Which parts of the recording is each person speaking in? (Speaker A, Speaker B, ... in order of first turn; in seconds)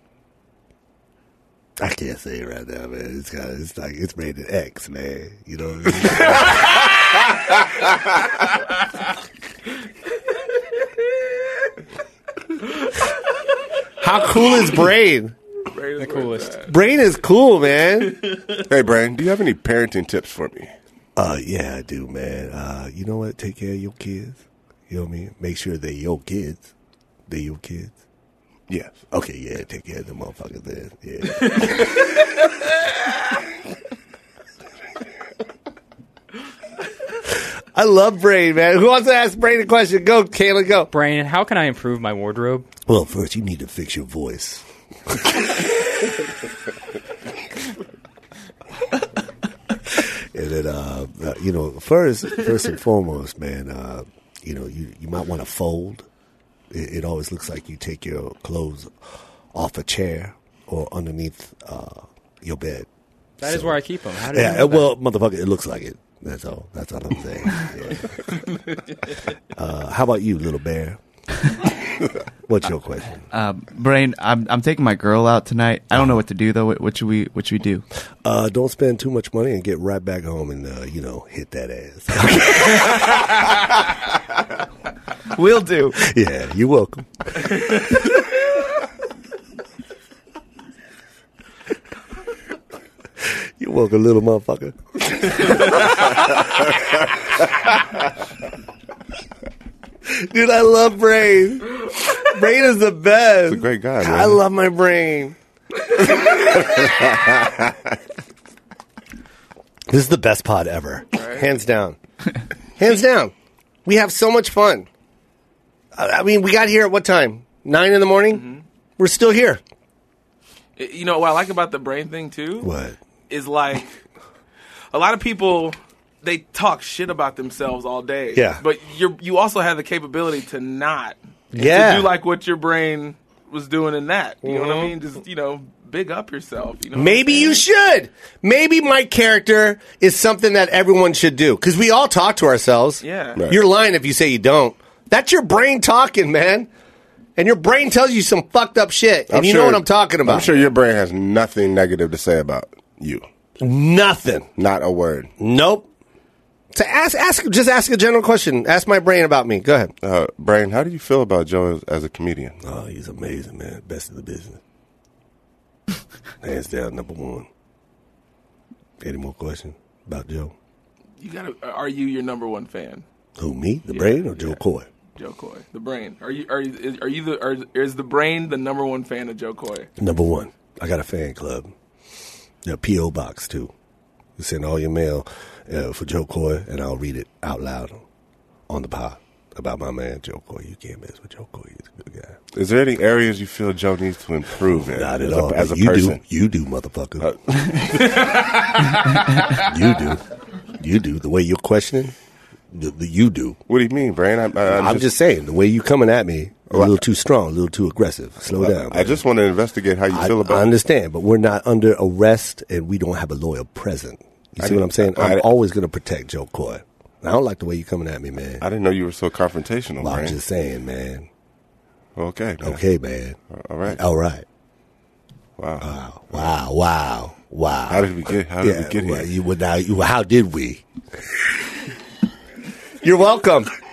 Speaker A: 1.8-6.9, 14.0-15.3, 16.7-18.2, 21.2-26.7, 27.3-27.9, 29.1-31.9, 37.7-40.9, 42.9-44.6, 49.9-56.0, 56.7-58.9, 59.5-62.9, 63.4-63.8, 64.3-68.5, 69.5-71.0, 72.5-73.2, 78.2-83.4, 85.9-87.8, 93.6-96.2, 100.0-105.3, 109.9-112.0, 112.8-113.3, 113.8-114.9, 116.0-118.4, 119.0-119.6, 122.6-123.0, 128.3-128.6, 131.5-132.1, 134.4-134.9, 136.9-146.7, 147.4-150.6, 153.6-154.5, 155.4-155.8, 156.7-159.9, 162.6-164.6, 166.4-167.5, 169.0-170.5, 173.4-174.8, 180.0-181.7, 182.6-183.7, 184.4-188.0, 188.7-192.4, 194.9-197.3, 199.5-200.2, 200.8-202.1, 202.7-203.6, 204.7-209.2, 210.1-218.7, 220.0-221.3, 222.6-223.4, 223.9-224.4, 225.8-230.8, 233.0-233.7
Speaker B: 15.7-16.7, 111.1-111.5, 118.3-118.6, 120.8-122.7, 123.3-123.9, 124.9-137.6, 143.0-143.4, 171.2-173.0, 173.9-174.6, 175.2-179.9
Speaker C: 16.0-16.6, 40.9-42.7, 63.4-65.0
Speaker D: 18.6-20.7, 28.7-29.0, 103.4-104.4, 106.8-107.6, 149.3-153.2, 154.6-155.3, 160.0-162.6, 192.5-196.2, 197.2-198.3, 203.7-205.1, 206.7-207.0, 208.5-210.7, 214.6-215.5, 218.6-220.4, 222.2-222.8, 223.5-224.0, 225.6-226.5, 227.9-229.3
Speaker E: 73.3-77.8, 85.3-86.1